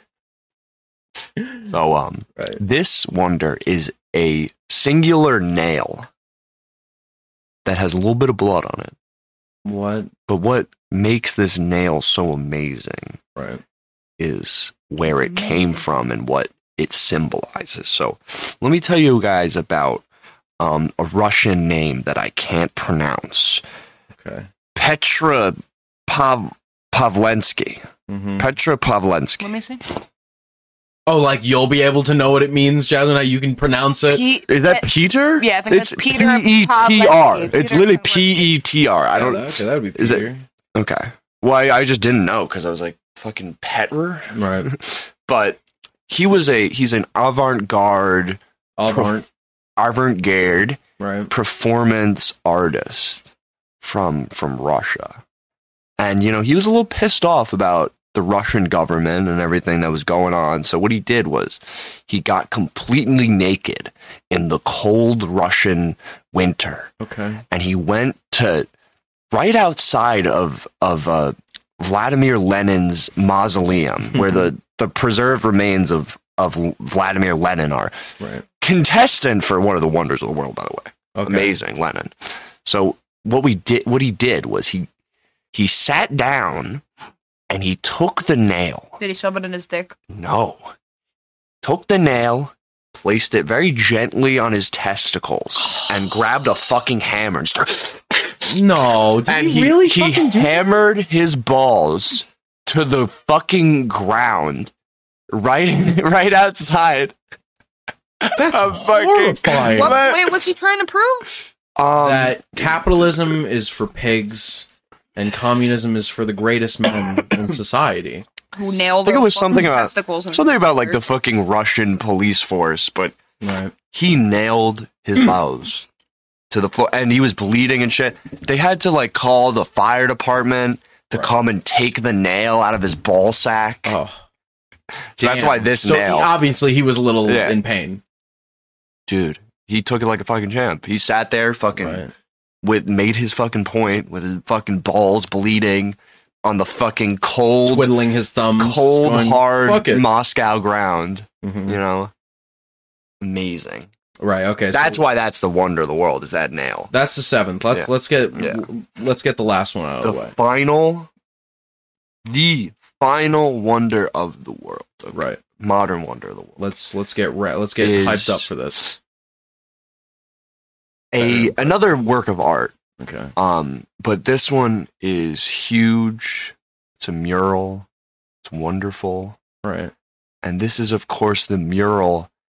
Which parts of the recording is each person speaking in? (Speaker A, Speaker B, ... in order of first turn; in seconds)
Speaker A: 1.6-6.1, 7.6-8.9, 10.3-13.2, 14.2-20.0, 20.6-23.6, 24.7-27.8, 28.4-29.5, 34.5-49.1, 49.8-55.2, 56.0-66.9, 67.5-68.7, 69.3-77.9, 78.6-84.9, 85.5-86.8, 87.5-89.0, 90.1-90.7, 91.6-98.5, 99.2-104.7, 105.3-107.2, 108.2-110.5, 111.8-113.1, 119.0-123.2, 123.9-125.9, 126.5-133.9, 135.1-136.3, 137.2-137.6, 139.1-142.1, 142.6-147.9, 148.6-152.1, 153.2-153.9, 154.7-156.9, 157.7-158.6, 160.0-161.1, 162.2-166.6, 167.8-168.5, 171.1-172.7, 173.3-177.9, 178.4-179.4, 180.4-182.3
Speaker B: 9.6-10.1, 13.3-13.6, 24.2-24.5, 28.1-28.5, 31.1-34.2, 39.1-40.4, 44.3-44.7, 48.8-49.2, 51.0-51.3, 67.0-67.4, 78.2-78.4, 81.1-81.5, 98.5-100.6, 108.3-110.0, 112.0-118.2, 123.4-123.7, 133.8-134.2, 135.2-138.0, 141.8-142.1, 147.7-150.0, 151.4-151.8, 154.2-155.0, 156.9-160.3, 165.1-165.4, 166.6-169.0, 171.2-171.7, 173.0-173.3, 179.6-179.9
Speaker C: 29.4-29.8, 34.1-38.5, 89.0-89.9, 109.6-111.3, 118.5-121.0